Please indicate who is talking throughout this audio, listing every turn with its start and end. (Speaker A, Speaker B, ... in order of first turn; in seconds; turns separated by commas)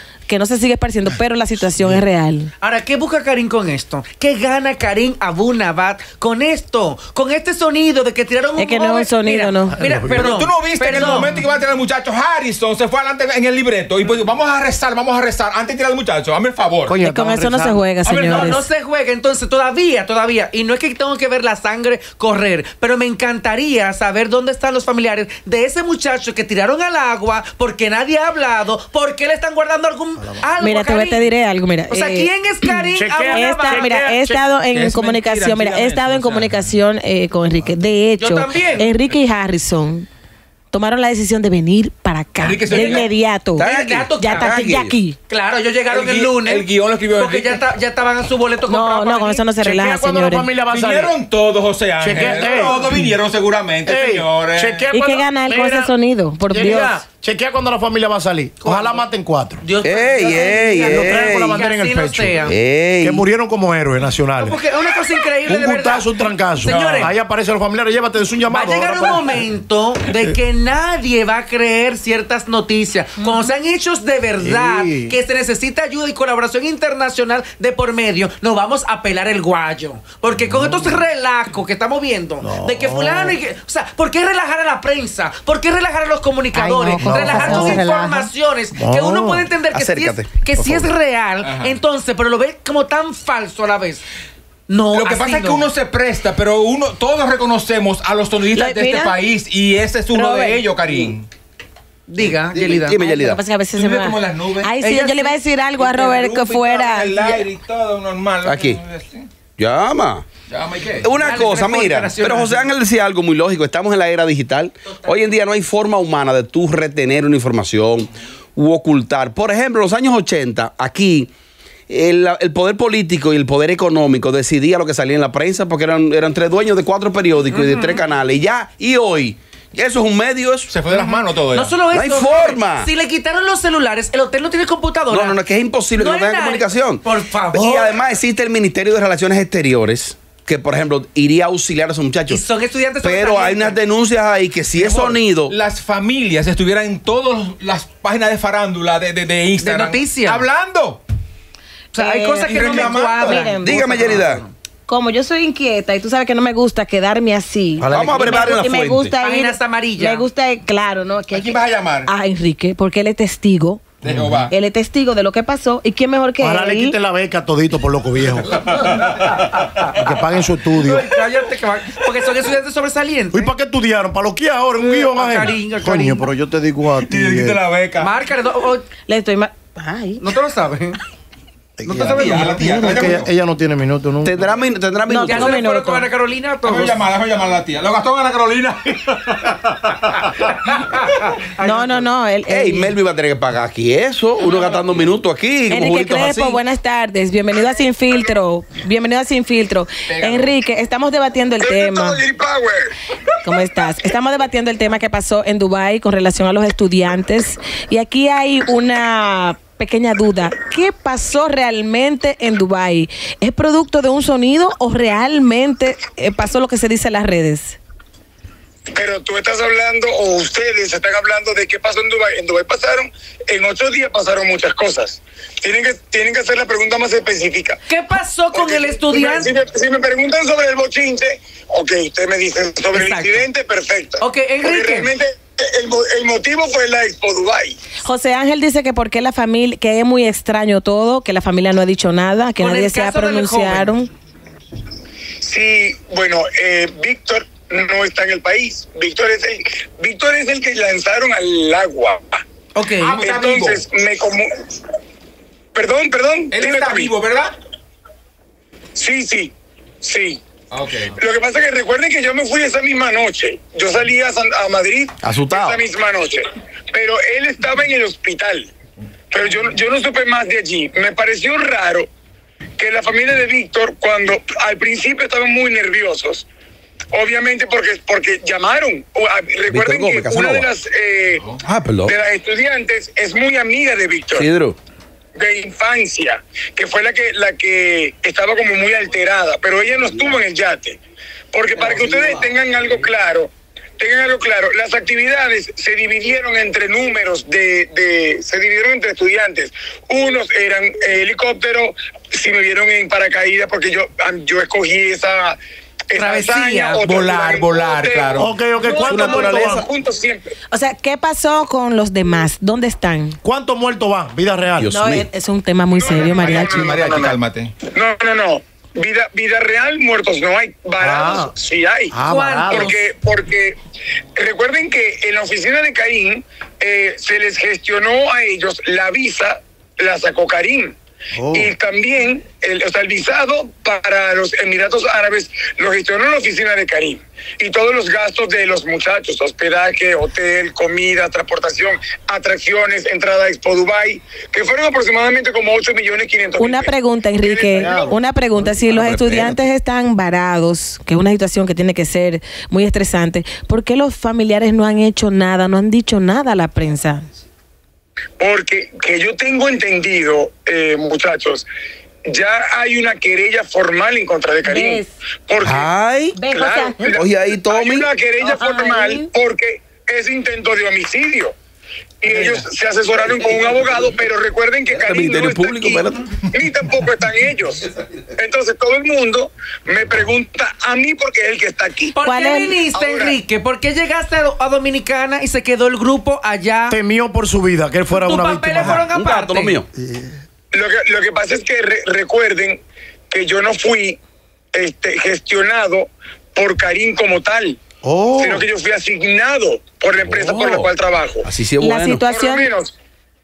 Speaker A: 0.3-2.5, Speaker B: 2.6-11.3, Speaker A: 8.6-9.8, Speaker C: 9.8-10.3, Speaker D: 10.1-16.9, Speaker C: 16.9-17.8, Speaker A: 17.0-18.7, Speaker B: 18.0-31.3, Speaker A: 30.6-32.3, Speaker B: 31.9-34.0, Speaker C: 32.9-34.5, Speaker A: 33.3-40.1, Speaker D: 34.7-36.6, Speaker B: 38.2-38.9, Speaker A: 40.7-45.2, Speaker D: 42.4-43.1, Speaker B: 42.7-43.1, Speaker E: 43.6-45.0, Speaker B: 43.6-44.5, Speaker B: 45.3-49.4, Speaker D: 45.9-47.6, Speaker A: 48.7-50.5, Speaker C: 49.6-51.1, Speaker D: 50.7-54.8, Speaker C: 52.0-53.0, Speaker B: 52.4-52.7, Speaker C: 53.8-56.0, Speaker A: 54.9-57.0, Speaker C: 56.5-59.6, Speaker B: 58.6-59.1, Speaker B: 59.6-62.6, Speaker E: 59.8-61.5, Speaker C: 60.7-64.6, Speaker E: 62.4-63.2, Speaker B: 64.4-67.1, Speaker C: 65.4-69.4, Speaker D: 66.7-67.1, Speaker B: 68.5-94.0, Speaker C: 74.4-75.2, Speaker C: 82.4-83.4, Speaker A: 86.5-88.3, Speaker C: 87.0-87.9, Speaker C: 88.7-89.5, Speaker E: 89.7-90.9, Speaker D: 91.4-91.8, Speaker B: 94.7-95.7, Speaker D: 94.9-101.3, Speaker A: 98.5-99.2, Speaker A: 100.1-100.6, Speaker B: 102.1-103.0, Speaker E: 102.5-103.4, Speaker A: 103.0-107.5, Speaker D: 103.7-104.7, Speaker B: 104.8-106.1, Speaker D: 105.8-109.3, Speaker E: 108.4-108.8, Speaker E: 109.6-110.3, Speaker D: 110.5-111.2, Speaker E: 111.0-121.3, Speaker B: 111.2-112.7, Speaker B: 114.9-115.4, Speaker E: 121.9-130.7, Speaker B: 127.5-128.0, Speaker D: 130.7-131.8, Speaker B: 130.9-135.4, Speaker E: 131.9-132.9, Speaker E: 135.1-137.0, Speaker B: 135.9-138.0, Speaker E: 137.5-142.4, Speaker B: 142.3-143.8, Speaker E: 143.0-145.5, Speaker D: 144.8-151.0, Speaker B: 149.6-150.4, Speaker A: 151.9-154.2, Speaker B: 151.9-154.5, Speaker D: 152.5-153.5, Speaker E: 153.6-154.4, Speaker A: 154.8-163.8, Speaker C: 157.8-158.5, Speaker E: 157.9-159.2, Speaker B: 159.2-160.2, Speaker D: 161.3-162.1, Speaker D: 164.0-164.5, Speaker C: 164.1-164.4, Speaker A: 164.5-166.9, Speaker C: 166.4-168.7, Speaker D: 168.6-168.9, Speaker C: 169.9-171.1, Speaker B: 170.7-173.5, Speaker C: 173.3-177.6, Speaker B: 174.8-176.3, Speaker D: 177.1-178.1, Speaker B: 178.0-178.8, Speaker A: 179.1-180.2, Speaker B: 180.2-181.0, Speaker C: 181.8-184.5, Speaker B: 181.8-182.9, Speaker D: 182.1-183.3, Speaker E: 184.2-185.5, Speaker A: 185.1-186.1, Speaker B: 185.2-187.0, Speaker D: 186.6-190.5, Speaker B: 190.5-192.1, Speaker A: 191.6-192.9, Speaker E: 192.5-196.6, Speaker B: 194.4-195.1, Speaker A: 195.7-202.2, Speaker F: 197.7-198.3, Speaker D: 200.1-200.5, Speaker F: 201.6-202.9, Speaker A: 203.4-217.8, Speaker F: 218.9-227.8, Speaker B: 227.9-229.5, Speaker F: 228.5-237.8, Speaker B: 232.9-233.4, Speaker B: 234.2-235.1, Speaker A: 238.0-244.1, Speaker B: 242.6-243.9, Speaker F: 245.4-252.4, Speaker B: 252.7-253.2, Speaker D: 253.0-253.8, Speaker F: 253.2-254.5, Speaker F: 255.7-257.1, Speaker D: 256.5-257.5, Speaker F: 258.9-260.4, Speaker D: 260.7-261.1, Speaker F: 261.1-268.7, Speaker E: 265.2-265.8, Speaker F: 269.3-272.1, Speaker F: 272.8-276.4, Speaker F: 277.1-281.5, Speaker E: 279.7-280.7, Speaker E: 281.6-282.1, Speaker F: 282.0-284.5, Speaker E: 284.3-284.8, Speaker F: 285.4-291.0, Speaker F: 291.5-305.6, Speaker E: 291.7-293.1, Speaker F: 306.1-310.5, Speaker B: 306.1-307.1, Speaker D: 307.1-308.5, Speaker C: 308.4-309.9, Speaker E: 309.0-309.8, Speaker A: 310.7-313.4, Speaker C: 313.4-314.9, Speaker E: 314.8-315.3, Speaker A: 314.9-316.9, Speaker F: 315.9-322.1, Speaker D: 316.2-317.7, Speaker C: 321.0-321.5, Speaker C: 322.1-322.9, Speaker B: 322.2-323.0, Speaker F: 322.7-323.8, Speaker F: 324.4-330.9, Speaker C: 331.3-331.7, Speaker F: 331.5-348.1, Speaker A: 346.6-357.2, Speaker C: 347.7-348.7, Speaker E: 348.9-349.7, Speaker F: 358.4-361.7, Speaker F: 362.3-371.5, Speaker A: 364.6-365.1, Speaker E: 365.6-366.4, Speaker A: 366.4-367.2, Speaker E: 367.1-368.1, Speaker A: 368.4-369.3, Speaker F: 372.2-382.1, Speaker D: 372.3-372.6, Speaker E: 374.9-376.3, Speaker B: 382.1-387.0, Speaker A: 382.2-382.8, Speaker F: 382.9-383.4, Speaker C: 386.9-389.1, Speaker B: 388.1-389.8, Speaker E: 389.0-389.9, Speaker C: 389.9-390.3, Speaker F: 390.7-392.8, Speaker F: 393.3-394.2, Speaker F: 394.7-397.8, Speaker C: 398.0-398.7, Speaker F: 398.4-401.4, Speaker E: 400.2-400.9, Speaker E: 401.4-402.2, Speaker A: 401.8-402.7, Speaker F: 402.2-402.9